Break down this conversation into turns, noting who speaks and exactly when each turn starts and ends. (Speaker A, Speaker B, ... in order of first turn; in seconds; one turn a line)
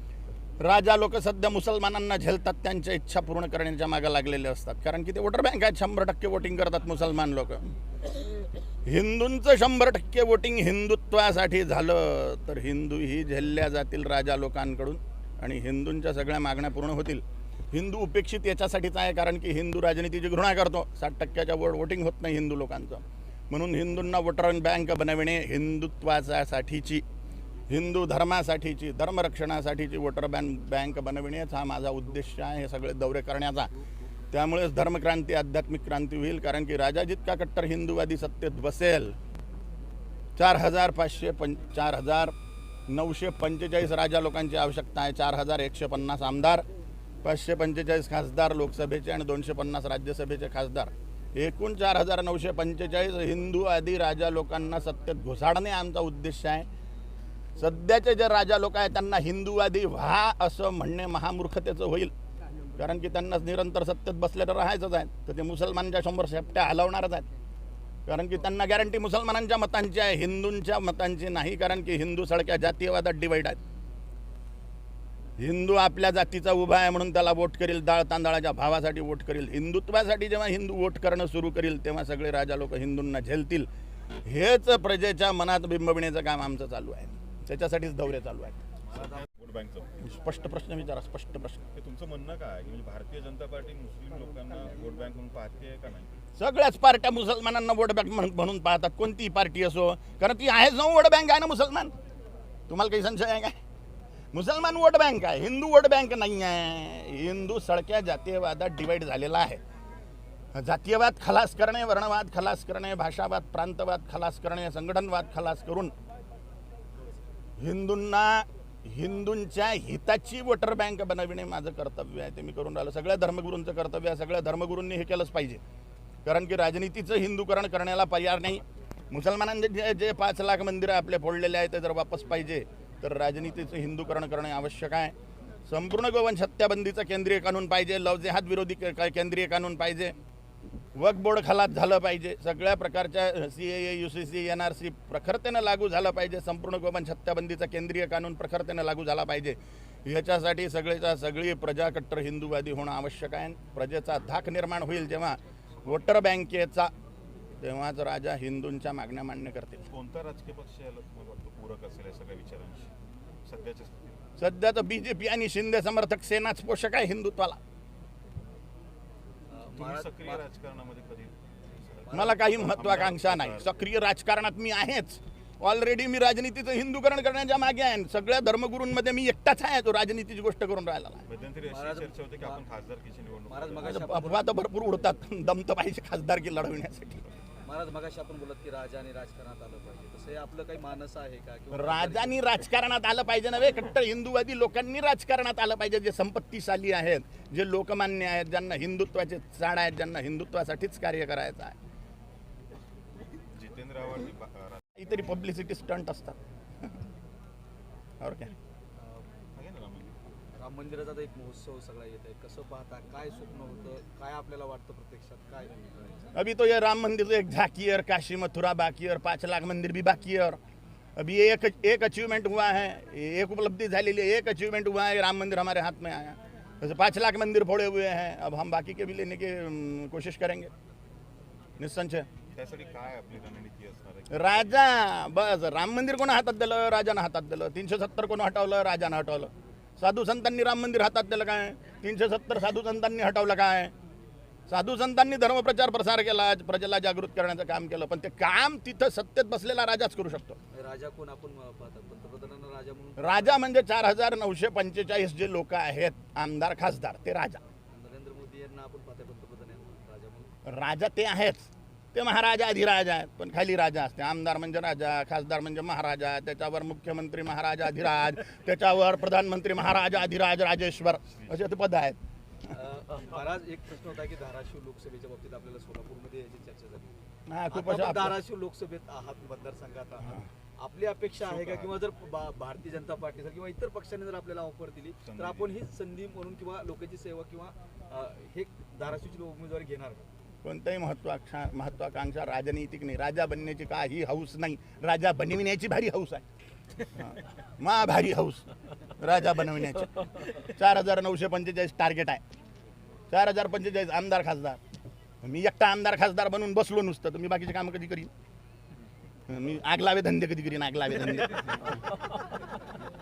Speaker A: 0.6-7.8
Speaker A: 8.8-27.0
Speaker A: 27.7-33.7
Speaker A: 34.3-39.2
Speaker A: 40.4-42.3
Speaker A: 42.9-46.6
Speaker A: 47.2-56.7
Speaker A: 57.6-62.1
Speaker A: 62.8-67.3
Speaker A: 68.1-73.6
Speaker A: 75.4-83.7
Speaker A: 84.2-88.6
Speaker B: 88.8-89.9
Speaker A: 90.0-91.7
Speaker B: 91.7-96.2
Speaker A: 96.4-101.9
Speaker A: 102.7-103.6
Speaker A: 104.3-109.6
Speaker A: 110.5-115.9
Speaker A: 117.6-125.6
Speaker A: 126.2-135.2
Speaker A: 135.7-140.2
Speaker A: 140.9-156.9
Speaker A: 157.6-159.9
Speaker B: 159.9-162.9
Speaker B: 163.5-164.2
Speaker A: 164.4-167.6
Speaker C: 169.5-170.4
Speaker B: 169.8-173.8
Speaker C: 172.1-172.5
Speaker A: 172.1-181.3
Speaker B: 181.3-184.0
Speaker C: 181.7-182.6
Speaker C: 183.5-184.5
Speaker A: 183.8-187.3
Speaker C: 187.6-192.5
Speaker A: 191.7-201.8
Speaker B: 203.5-204.9
Speaker A: 205.0-206.4
Speaker A: 208.2-208.5
Speaker B: 209.6-210.2
Speaker C: 210.6-216.3
Speaker A: 216.3-220.6
Speaker A: 221.2-230.7
Speaker A: 231.8-232.3
Speaker B: 232.5-234.7
Speaker A: 234.3-243.9
Speaker A: 244.7-250.6
Speaker C: 250.7-253.7
Speaker A: 253.2-257.6
Speaker C: 257.9-260.5
Speaker A: 260.7-272.2
Speaker B: 271.3-271.6
Speaker C: 272.7-277.2
Speaker A: 277.5-278.4
Speaker C: 277.7-290.3
Speaker B: 281.4-281.9
Speaker B: 285.2-285.8
Speaker A: 290.6-296.5
Speaker A: 297.1-298.6
Speaker A: 299.2-302.4
Speaker A: 303.3-304.8
Speaker A: 305.4-308.3
Speaker A: 309.5-312.0
Speaker C: 311.9-312.5